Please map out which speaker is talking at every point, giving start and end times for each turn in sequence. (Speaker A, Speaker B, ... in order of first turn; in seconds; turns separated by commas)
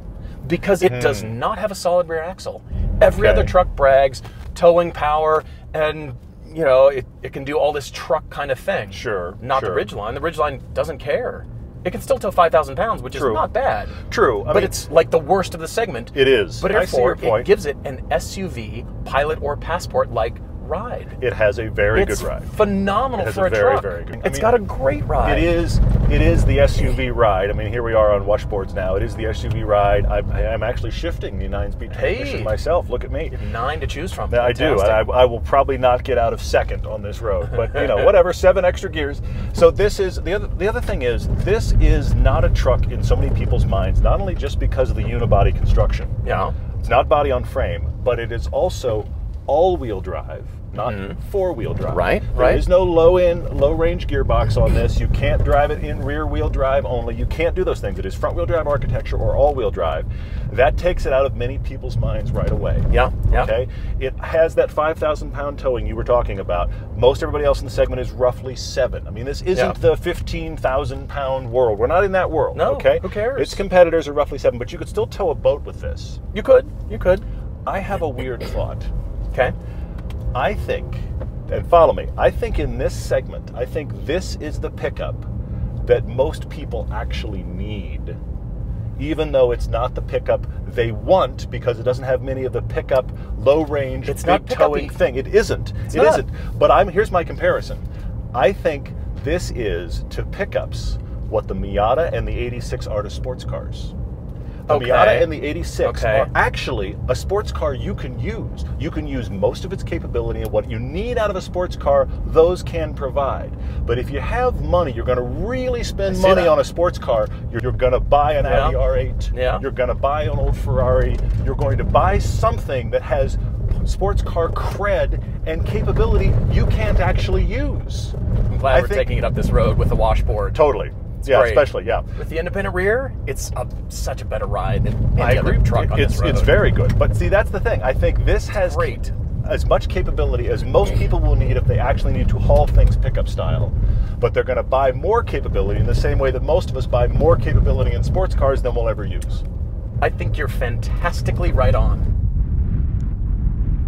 Speaker A: 0.4-21.2, Speaker B: 0.8-1.4, Speaker B: 3.1-3.6, Speaker B: 8.9-9.9, Speaker B: 13.1-13.4, Speaker B: 14.0-14.8, Speaker B: 16.1-17.5, Speaker B: 21.2-22.5, Speaker A: 21.9-25.6, Speaker B: 23.1-24.6, Speaker B: 25.2-33.4, Speaker A: 31.9-32.6, Speaker A: 33.3-35.2, Speaker B: 34.3-46.1, Speaker A: 46.2-46.5, Speaker B: 46.8-76.2, Speaker A: 50.8-51.2, Speaker A: 51.9-52.6, Speaker A: 62.9-63.5, Speaker A: 69.5-69.8, Speaker A: 72.5-73.6, Speaker A: 76.3-77.2, Speaker B: 77.7-78.9, Speaker B: 80.3-85.3, Speaker B: 85.8-88.2, Speaker B: 89.0-103.9, Speaker A: 94.0-95.0, Speaker A: 95.9-96.2, Speaker B: 104.7-128.1, Speaker A: 104.7-106.3, Speaker A: 116.1-116.6, Speaker A: 118.4-119.6, Speaker A: 128.5-130.7, Speaker B: 128.7-129.1, Speaker B: 130.5-132.0, Speaker A: 131.2-136.7, Speaker B: 135.2-149.4, Speaker A: 138.5-139.1, Speaker A: 150.0-152.1